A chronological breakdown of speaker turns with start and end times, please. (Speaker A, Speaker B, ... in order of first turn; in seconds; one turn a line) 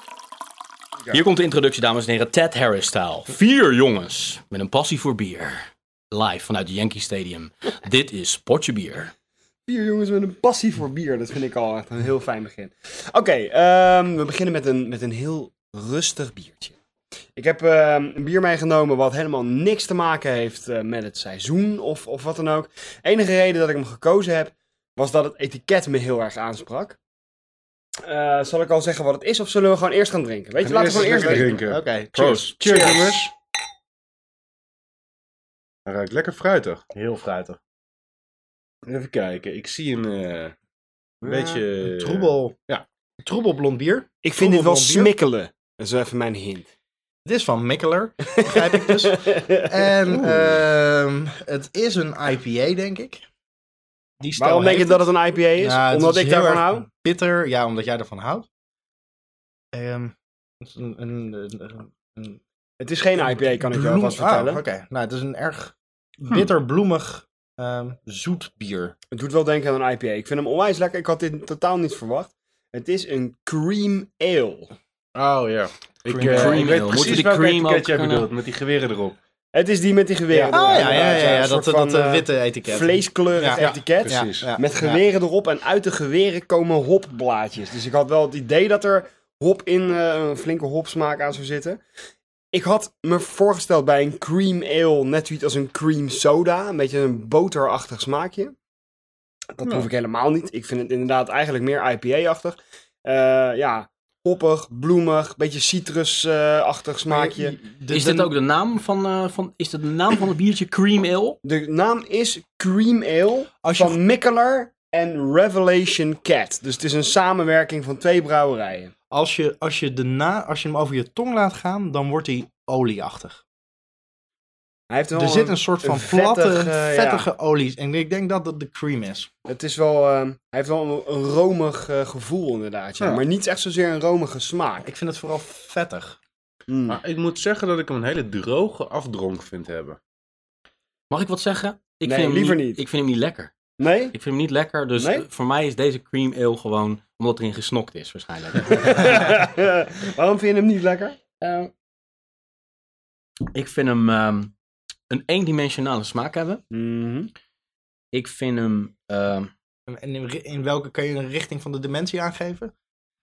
Speaker A: 1.1-9.1
Speaker B: 9.7-16.7
Speaker B: 17.4-27.0
Speaker B: 28.0-31.6
Speaker C: 30.6-33.3
Speaker D: 30.9-33.1
Speaker B: 32.7-33.1
Speaker C: 35.9-36.8
Speaker D: 36.9-37.6
Speaker C: 38.8-40.5
Speaker C: 41.2-42.8
Speaker D: 41.2-42.5
Speaker D: 43.2-45.1
Speaker B: 44.2-46.7
Speaker D: 47.2-53.2
Speaker B: 48.4-49.9
Speaker C: 50.1-50.6
Speaker D: 54.2-55.0
Speaker B: 54.4-56.9
Speaker D: 55.6-58.5
Speaker D: 59.7-62.4
Speaker B: 62.8-64.6
Speaker D: 63.6-68.9
Speaker B: 69.1-74.7
Speaker C: 75.1-79.2
Speaker D: 76.1-76.8
Speaker A: 76.2-78.3
Speaker B: 79.5-91.8
Speaker C: 80.3-81.2
Speaker D: 80.5-85.0
Speaker C: 83.6-84.5
Speaker B: 92.5-98.5
Speaker B: 99.5-107.5
Speaker D: 107.1-108.3
Speaker A: 107.9-111.4
Speaker B: 111.4-118.9
Speaker D: 113.6-114.0
Speaker D: 119.1-123.4
Speaker B: 124.9-127.3
Speaker D: 125.1-129.3
Speaker B: 129.5-134.9
Speaker D: 134.8-136.2
Speaker B: 136.7-137.0
Speaker C: 136.9-140.0
Speaker A: 141.1-143.5
Speaker B: 142.0-142.8
Speaker B: 143.8-144.1
Speaker A: 144.1-149.3
Speaker B: 145.0-145.2
Speaker B: 148.6-151.2
Speaker A: 151.4-151.7
Speaker A: 153.5-154.5
Speaker A: 155.1-156.6
Speaker B: 156.7-157.3
Speaker A: 158.1-159.5
Speaker D: 159.9-162.7